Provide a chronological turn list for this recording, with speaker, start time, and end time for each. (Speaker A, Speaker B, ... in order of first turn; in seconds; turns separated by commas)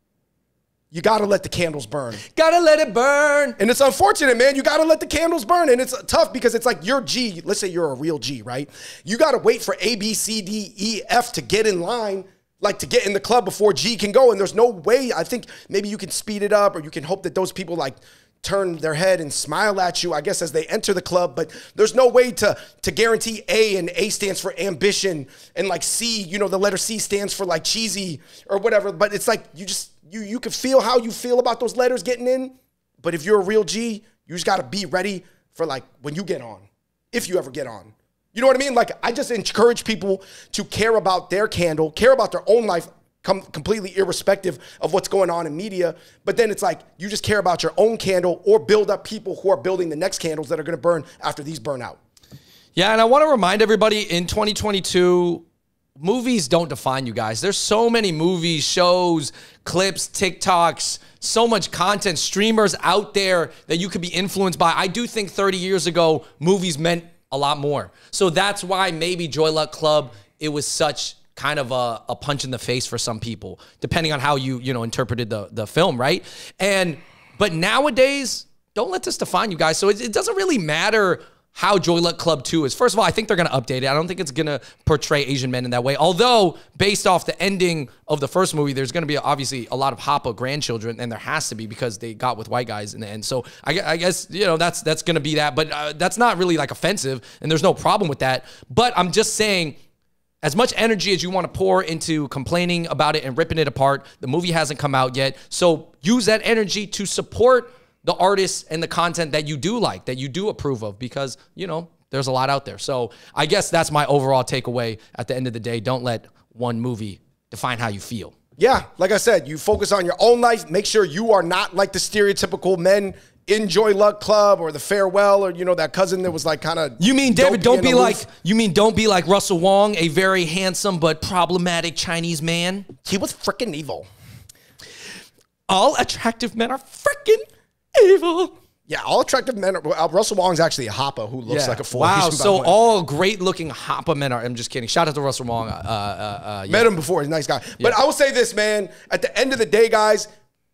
Speaker A: 0.9-2.2, Speaker B: 2.2-3.6, Speaker A: 3.6-52.0, Speaker B: 52.8-55.4, Speaker B: 56.0-99.8, Speaker B: 100.4-118.3, Speaker A: 118.6-128.2, Speaker B: 127.0-132.9, Speaker A: 133.0-134.1, Speaker B: 135.7-138.5, Speaker A: 138.9-142.8, Speaker B: 141.5-146.9, Speaker A: 146.7-150.3